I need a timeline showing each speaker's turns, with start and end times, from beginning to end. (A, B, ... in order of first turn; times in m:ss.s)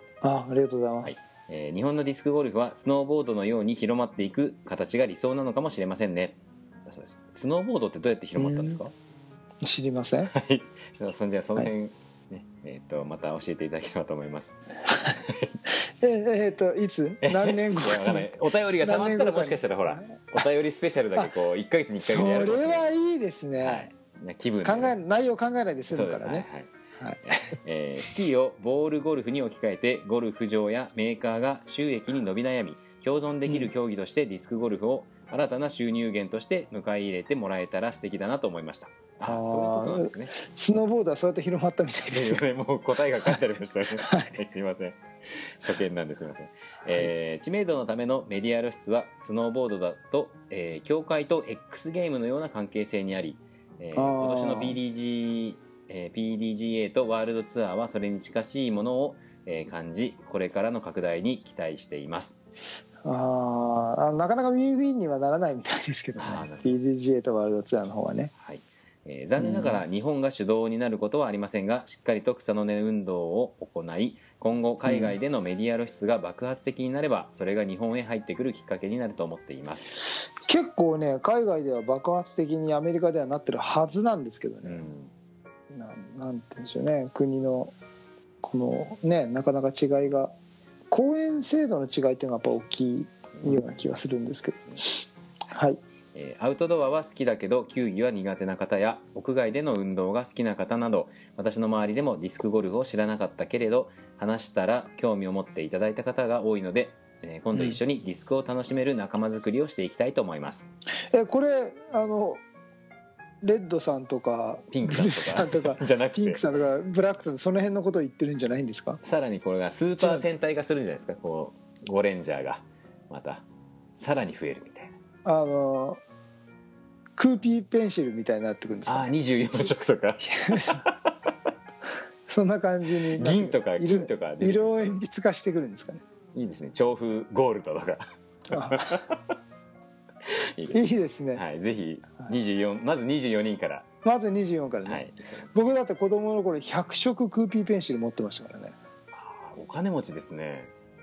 0:00.2-0:01.2 A
0:01.0-0:08.9 B
0:08.4-0:08.8 A
0:09.6-0:10.3 A
0:10.3-0:14.6 B
0:15.2-0:15.5 B
0:16.0-0:18.3 A
0:17.2-0:22.9 B
0:18.8-0:20.1 A
0:22.0-0:23.9 A
0:23.6-0:24.9 B
0:24.6-0:26.5 A
0:25.9-0:26.7 B
0:27.2-0:40.3 B
0:39.2-0:42.4 A
0:42.1-1:02.4 B
0:44.0-0:44.3 A
0:53.9-0:54.8 A
1:03.0-1:08.3 A
1:06.1-1:06.8 B
1:08.4-1:19.9 B
1:09.4-1:09.8 A
1:14.8-1:15.1 A
1:20.4-1:24.8 A
1:24.6-1:25.1 B
1:25.7-1:27.7 A
1:28.4-1:30.3 A
1:30.9-1:35.8 A
1:36.1-1:50.7 B
1:51.1-1:52.4 A
1:53.4-1:59.0 A
1:54.7-1:56.4 B
1:59.0-2:03.4 B
2:00.0-2:00.3 A
2:04.0-2:04.9 B
2:05.2-2:06.0 A
2:07.2-2:09.1 A
2:08.8-2:10.9 B
2:10.2-2:10.8 A
2:12.3-2:16.0 A
2:13.1-2:15.0 B
2:16.3-2:19.3 B
2:18.5-2:19.0 A
2:20.3-2:20.8 B
2:20.7-2:21.4 A
2:21.3-2:23.8 B
2:24.0-2:28.8 A
2:24.8-2:25.5 B
2:29.1-2:30.7 B